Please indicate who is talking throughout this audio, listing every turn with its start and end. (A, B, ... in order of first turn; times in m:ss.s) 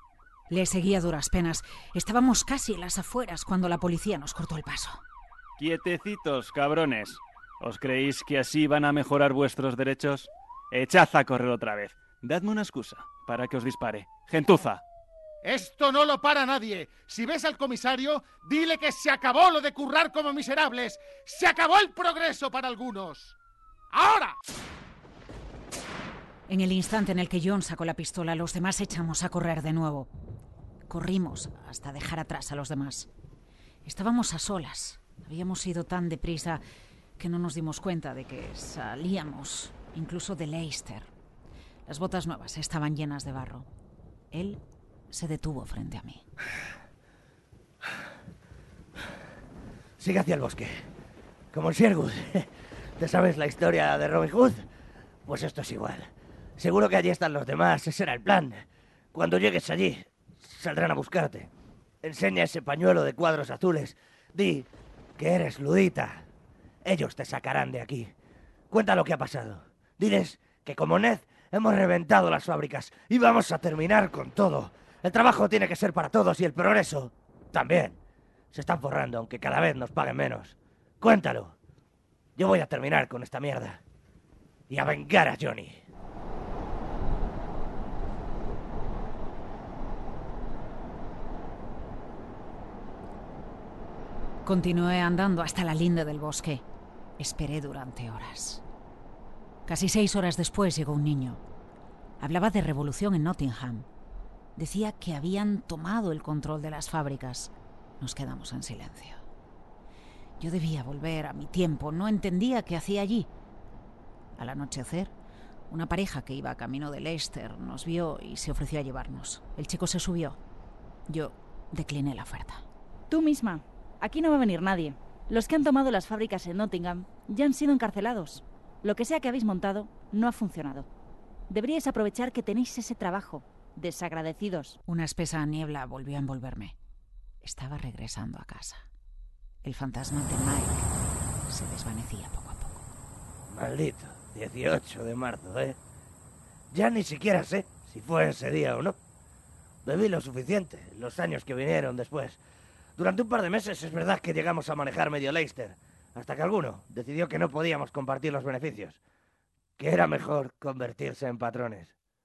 0:00.5-0:05.0 A
0:05.6-0:14.8 B
0:15.4-0:23.4 C
0:23.9-0:24.4 C
0:26.5-0:30.1 A
0:30.9-0:33.1 A
0:33.8-0:36.6 A
0:37.2-0:41.1 A
0:41.9-0:43.6 A
0:44.3-0:46.2 A
0:50.0-0:50.9 D
0:51.5-0:52.5 D
0:53.0-0:54.7 D
0:55.2-1:01.5 D
1:02.0-1:06.2 D
1:06.8-1:08.1 D
1:08.7-1:18.0 D
1:18.5-1:21.5 D
1:22.4-1:23.8 D
1:24.7-1:25.8 D
1:34.4-1:36.6 A
1:37.2-1:38.6 A
1:39.7-1:41.4 A
1:42.2-1:43.8 A
1:44.6-1:49.2 A
1:50.4-1:53.3 A
1:54.4-1:55.1 A
1:55.7-2:00.4 A
2:01.1-2:02.6 A
2:03.1-2:10.9 E
2:11.5-2:14.8 E
2:14.8-2:16.7 A
2:17.4-2:18.8 A
2:19.6-2:20.9 A
2:21.5-2:22.8 A
2:23.5-2:25.8 D
2:26.7-2:29.0 D
2:29.8-2:32.4 D
2:33.0-2:39.0 D
2:39.8-2:41.9 D